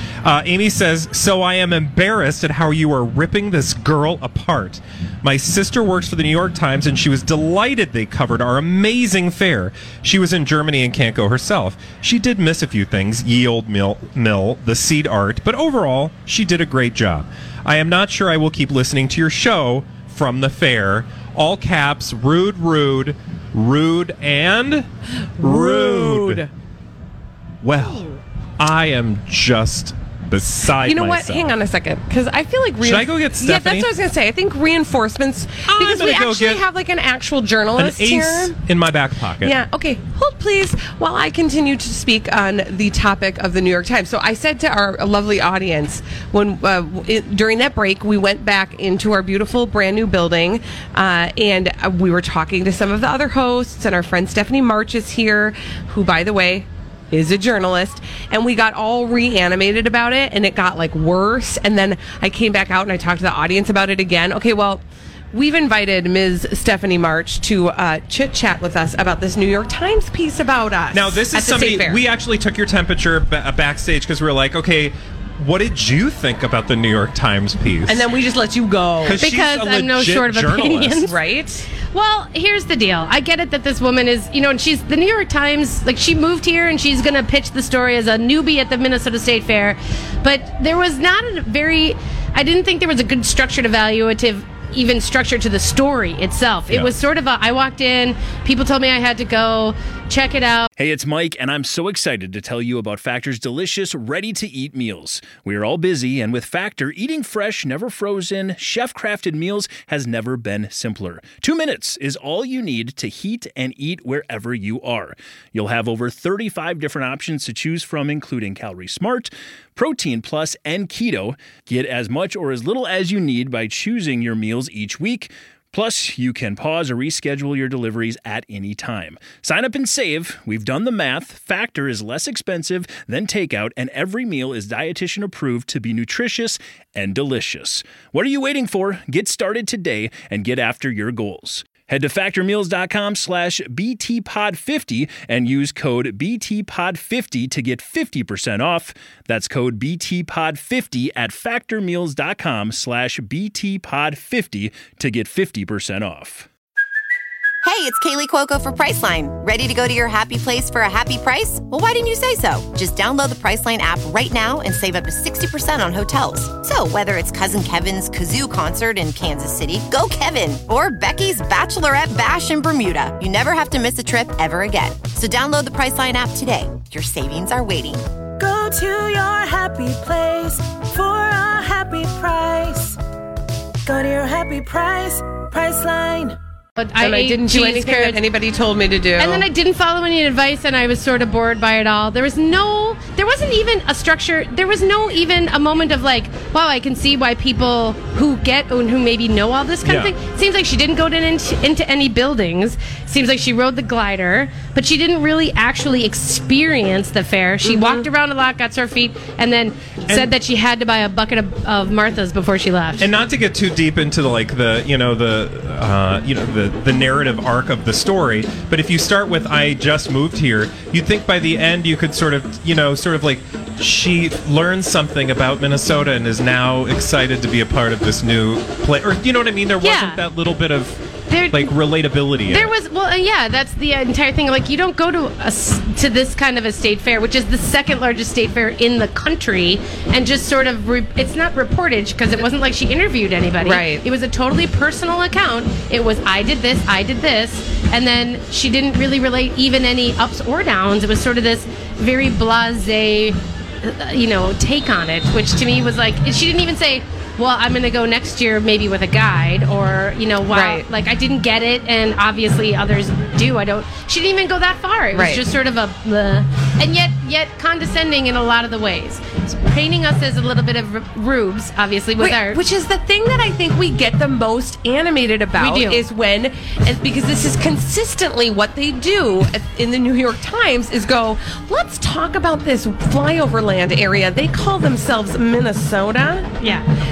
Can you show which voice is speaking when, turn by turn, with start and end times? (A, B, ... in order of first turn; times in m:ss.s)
0:00.2-0:24.9 A
0:25.4-0:26.5 B
0:25.4-0:26.5 A
0:27.6-0:31.5 A
0:30.8-0:38.6 B
0:32.8-0:33.9 A
0:35.7-0:36.6 A
0:37.8-0:39.6 A
0:39.4-1:12.0 B
1:10.9-1:18.1 A
1:17.9-1:19.2 B
1:19.0-1:21.1 A
1:19.2-1:21.1 C
1:21.1-1:21.7 B
1:21.9-1:40.7 C
1:40.8-2:36.5 D
2:37.6-2:58.0 E
2:58.4-3:03.0 F
3:03.8-3:06.4 F
3:06.8-3:08.2 C
3:07.0-3:09.5 B
3:09.2-3:33.1 C
3:19.8-3:20.1 A
3:27.6-3:28.0 B
3:33.0-3:52.7 A
3:49.8-3:50.2 C
3:51.3-3:51.8 C
3:52.5-4:32.6 C
4:03.6-4:04.0 B
4:20.5-4:20.8 B
4:25.1-4:25.4 B
4:32.2-4:46.5 B
4:35.6-4:36.0 C